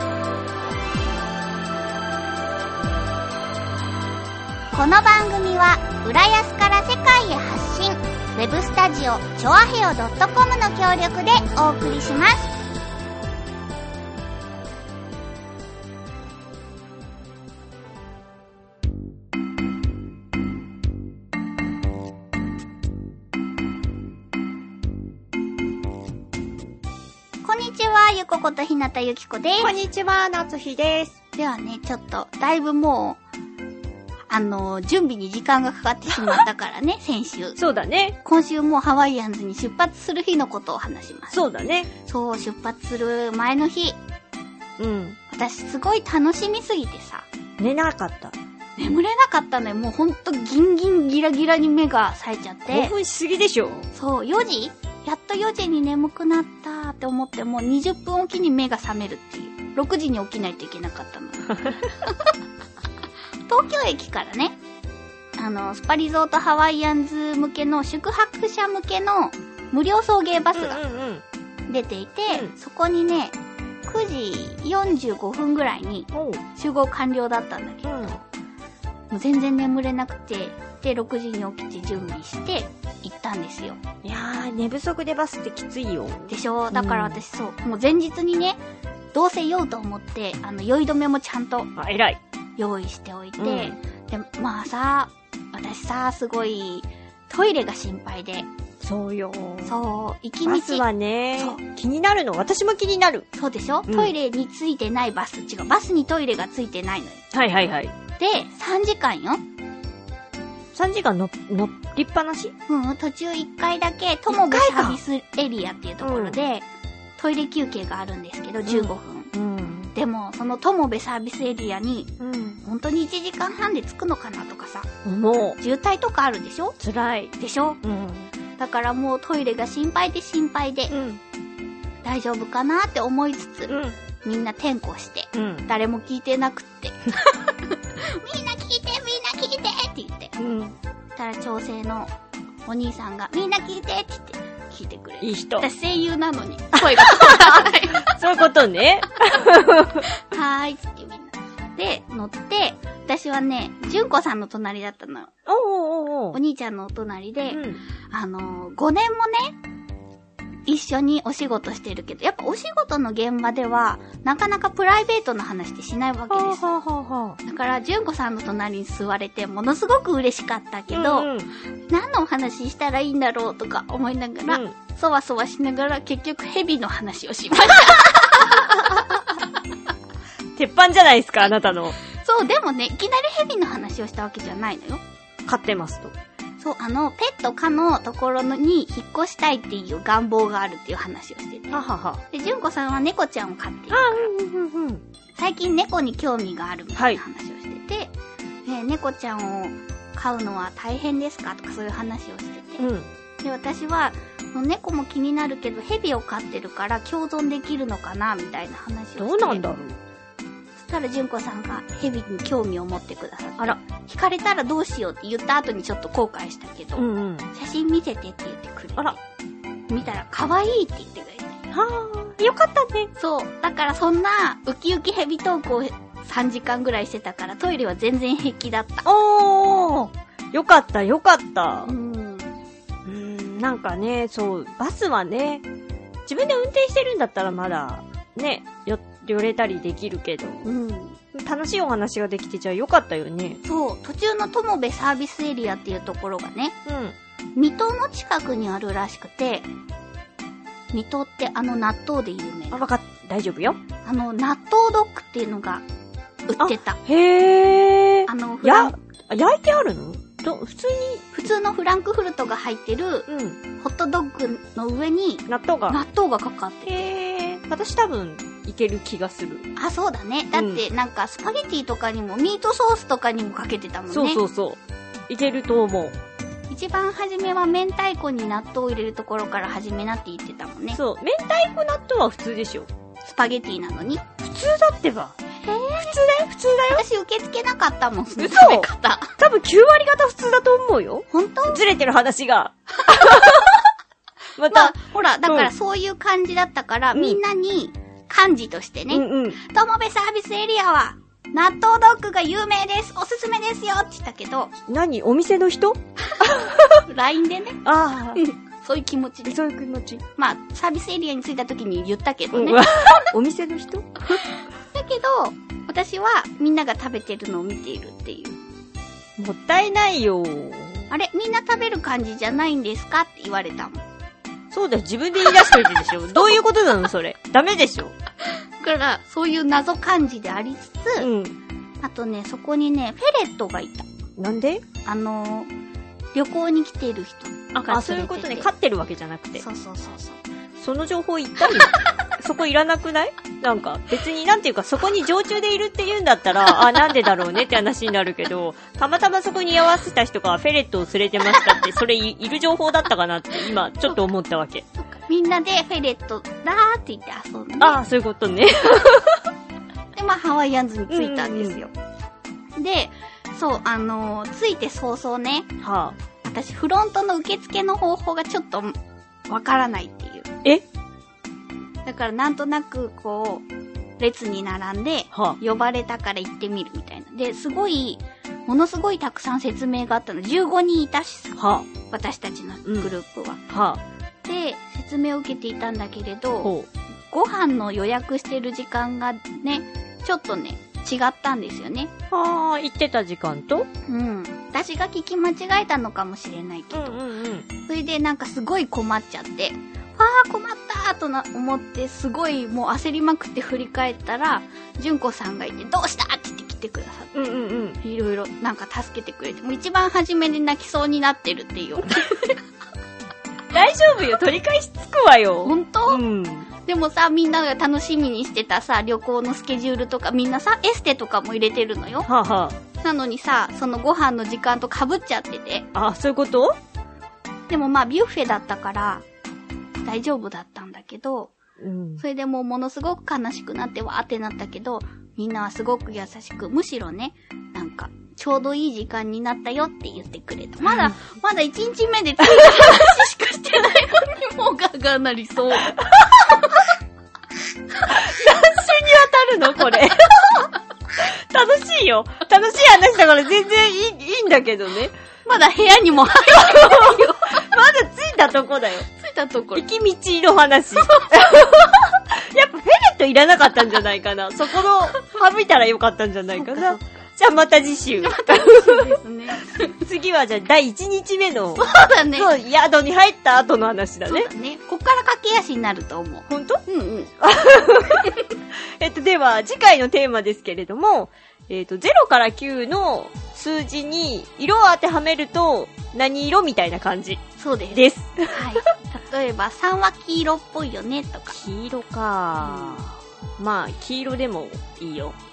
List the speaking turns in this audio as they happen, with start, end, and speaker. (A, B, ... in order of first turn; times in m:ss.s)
0:04.7-0:12.5 A
0:27.4-0:29.7 A
0:29.6-0:31.2 B
0:31.4-0:33.2 A
0:34.3-0:37.6 A
0:37.6-0:38.2 B
0:38.2-0:41.4 A
0:41.3-0:41.9 B
0:42.0-0:44.0 A
0:44.8-0:45.2 B
0:45.3-0:47.3 A
0:47.6-0:48.4 B
0:48.8-0:53.0 A
0:52.7-0:53.9 B
0:53.9-1:02.3 A
1:03.5-1:04.6 A
1:05.4-1:10.8 A
1:10.6-1:11.2 B
1:11.7-1:18.2 A
1:16.1-1:16.4 B
1:17.9-1:18.2 B
1:19.1-1:23.8 A
1:24.0-1:27.2 B
1:26.3-1:28.6 A
1:29.1-1:31.7 A
1:31.8-1:32.2 B
1:32.6-1:38.5 A
1:33.4-1:33.8 B
1:38.8-1:39.8 B
1:39.6-1:40.8 A
1:40.4-1:43.3 B
1:43.3-1:47.2 A
1:43.9-1:44.1 B
1:47.3-1:47.9 B
1:48.2-1:49.4 A
1:50.8-1:52.5 B
1:52.7-1:56.7 A
1:54.3-1:55.0 B
1:56.0-1:56.4 B
1:57.2-1:59.3 A
1:58.6-1:59.9 B
1:59.9-2:02.1 A
2:02.2-2:02.6 B
2:02.6-2:04.9 A
2:05.0-2:05.6 B
2:05.6-2:06.8 A
2:06.8-2:08.3 B
2:07.4-2:07.8 A
2:08.6-2:10.9 A
2:10.9-2:11.2 B
2:12.0-2:20.4 A
2:13.7-2:14.0 B
2:15.3-2:15.7 B
2:20.4-2:20.8 B
2:21.2-2:22.1 A
2:22.7-2:28.1 A
2:25.2-2:25.7 B
2:26.7-2:30.1 B
2:30.2-2:35.3 A
2:35.5-2:36.4 B
2:36.3-2:39.6 A
2:37.5-2:37.8 B
2:40.7-2:46.8 A
2:46.3-2:47.4 B
2:47.4-2:51.3 A
2:50.9-2:51.5 B
2:51.9-2:59.4 A
2:54.5-2:54.7 B
3:00.6-3:02.0 B
3:02.1-3:05.0 A
3:05.5-3:06.1 B
3:06.6-3:14.3 A
3:11.7-3:12.2 B
3:13.9-3:15.0 B
3:15.4-3:18.2 A
3:17.0-3:17.2 B
3:18.7-3:22.9 A
3:22.8-3:23.1 B
3:23.4-3:29.6 A
3:29.2-3:30.0 B
3:30.8-3:39.2 A
3:37.0-3:37.5 B
3:39.9-3:41.6 A
3:41.7-3:43.1 B
3:43.2-3:49.1 A
3:49.0-3:51.9 B
3:51.9-3:52.5 A
3:53.0-3:55.6 B
3:56.3-4:00.7 B
4:00.6-4:01.2 A
4:01.3-4:03.6 B
4:03.6-4:06.8 A
4:06.9-4:07.2 B
4:07.6-4:09.7 A
4:10.9-4:12.9 A
4:12.7-4:13.8 B
4:14.0-4:15.8 A
4:16.5-4:17.0 A
4:16.6-4:21.3 B
4:18.3-4:19.0 A
4:21.3-4:23.3 A
4:23.3-4:23.6 B
4:23.8-4:27.1 A
4:25.5-4:26.0 B
4:26.9-4:29.7 B
4:29.8-4:34.4 A
4:30.5-4:30.8 B
4:34.1-4:36.2 B
4:36.7-4:41.0 A
4:40.9-4:42.9 B
4:43.2-4:44.3 A
4:44.4-4:45.4 B
4:45.6-4:46.2 A
4:46.0-4:47.0 B
4:46.9-4:49.3 A
4:48.4-4:48.9 B
4:49.4-4:53.7 B
4:51.3-4:51.8 A
4:53.1-4:53.8 A
4:54.6-4:55.7 B
4:54.7-5:04.7 A
4:57.1-4:57.4 B
4:59.1-4:59.6 B
5:04.9-5:07.0 B
5:06.4-5:07.8 A
5:07.8-5:08.4 B
5:08.4-5:09.6 A
5:09.5-5:10.2 B
5:10.4-5:12.8 A
5:12.5-5:14.3 B
5:14.3-5:18.6 A
5:19.4-5:21.1 B
5:21.1-5:24.0 A
5:24.7-5:28.1 B
5:25.5-5:26.6 A
5:28.4-5:31.3 A
5:31.2-5:31.6 B
5:32.0-5:34.1 A
5:34.4-5:34.8 B
5:35.0-5:35.7 A
5:36.3-5:38.7 A
5:37.8-5:39.6 B
5:39.6-5:40.4 A
5:40.8-5:54.8 B
5:55.1-5:58.0 A
5:57.8-5:59.4 B
6:00.2-6:01.9 A
6:01.1-6:01.8 B
6:02.8-6:05.7 A
6:05.8-6:06.2 B
6:06.4-6:09.0 A
6:09.5-6:10.5 A
6:12.1-6:13.7 A
6:14.2-6:23.6 A
6:21.6-6:21.9 B
6:22.9-6:23.1 B
6:23.7-6:24.0 B
6:24.4-6:26.7 A
6:26.6-6:26.9 B
6:27.3-6:32.1 A
6:32.3-6:33.9 B
6:34.1-6:37.2 A
6:36.9-6:37.7 B
6:37.9-6:47.4 A
6:47.3-6:48.0 B
6:48.0-6:52.6 A
6:53.7-6:56.7 B
6:55.6-6:56.2 A
6:56.8-7:02.3 A
7:02.3-7:02.8 B
7:03.0-7:05.9 A
7:06.0-7:06.8 B
7:07.7-7:09.2 A
7:10.0-7:11.5 A
7:11.8-7:12.2 B
7:12.2-7:26.8 A
7:20.9-7:21.1 B
7:26.0-7:26.3 B
7:28.1-7:30.5 B
7:31.2-7:35.1 B
7:35.5-7:37.6 A
7:36.5-7:39.1 B
7:39.2-7:39.8 A
7:39.8-7:49.2 B
7:41.0-7:41.3 A
7:46.6-7:47.1 A
7:48.2-7:50.0 A
7:50.0-7:54.5 B
7:51.7-7:52.5 A
7:54.3-7:57.3 A
7:56.5-7:56.8 B
7:57.4-8:07.4 B
8:07.6-8:11.6 A
8:07.9-8:08.8 B
8:11.5-8:15.4 B
8:12.6-8:13.1 A